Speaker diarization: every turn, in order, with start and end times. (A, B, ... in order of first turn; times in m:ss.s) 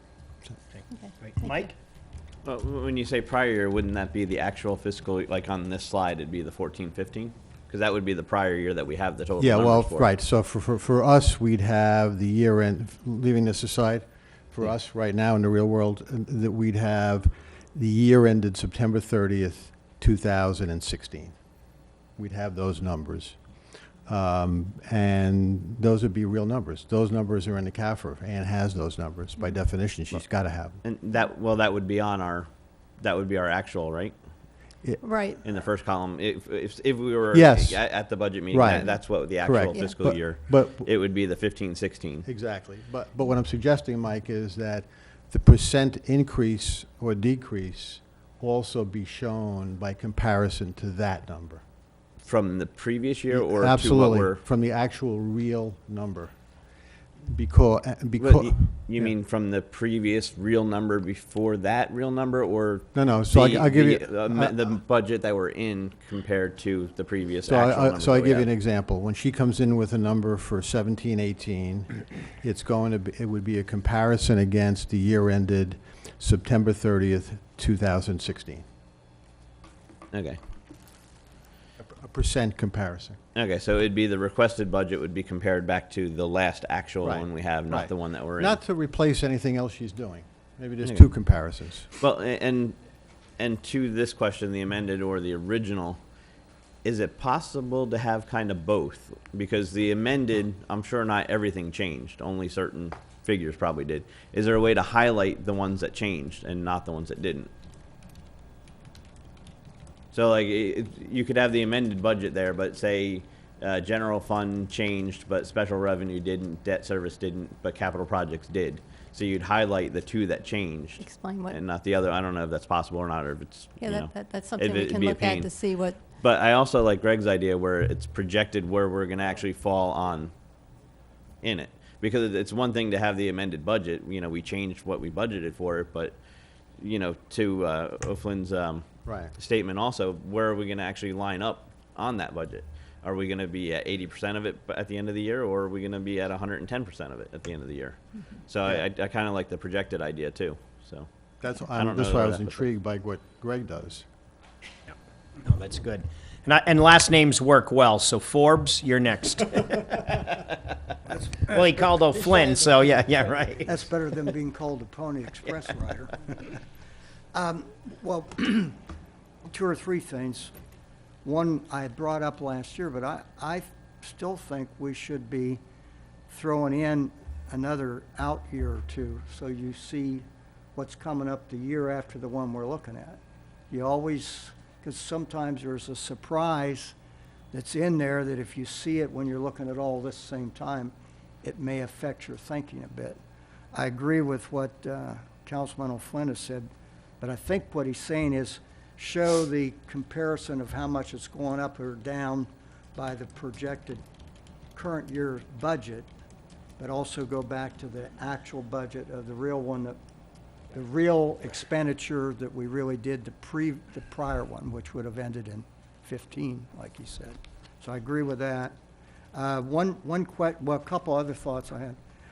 0:00.7-0:01.7 A
0:00.9-0:01.6 B
0:02.4-0:10.1 C
0:09.4-0:21.4 D
0:22.2-0:23.4 D
0:24.0-0:30.8 D
0:30.8-0:32.5 C
0:33.0-0:34.1 C
0:35.0-0:35.4 B
0:35.4-0:42.2 C
0:37.3-0:37.9 D
0:38.5-0:40.9 D
0:39.7-0:40.0 B
0:42.2-0:51.6 D
0:52.2-0:54.4 C
0:53.3-0:56.3 D
0:57.2-0:59.1 D
0:58.2-1:08.5 C
1:02.9-1:04.7 D
1:07.4-1:18.6 D
1:20.1-1:20.4 C
1:21.8-1:23.2 D
1:23.3-1:28.6 C
1:27.0-1:31.9 D
1:30.8-1:31.2 C
1:32.0-1:32.8 C
1:33.4-1:36.0 C
1:36.8-1:47.5 C
1:50.1-2:10.3 C
2:01.0-2:01.6 B
2:03.8-2:06.0 B
2:11.4-2:16.2 C
2:16.8-2:31.1 C
2:19.0-2:19.3 D
2:31.4-2:34.0 D
2:31.7-2:32.7 C
2:35.4-2:39.9 A
2:41.1-2:43.0 E
2:41.4-2:43.7 A
2:43.6-2:46.6 E
2:47.3-2:48.8 E
2:49.5-2:50.5 E
2:51.2-2:55.6 E
2:56.3-3:03.2 E
3:03.7-3:06.9 E
3:07.5-3:13.2 E
3:13.7-3:16.7 E
3:17.2-3:24.0 E
3:24.7-3:26.1 E
3:26.8-3:30.0 E
3:30.7-3:38.8 E
3:39.3-3:42.0 E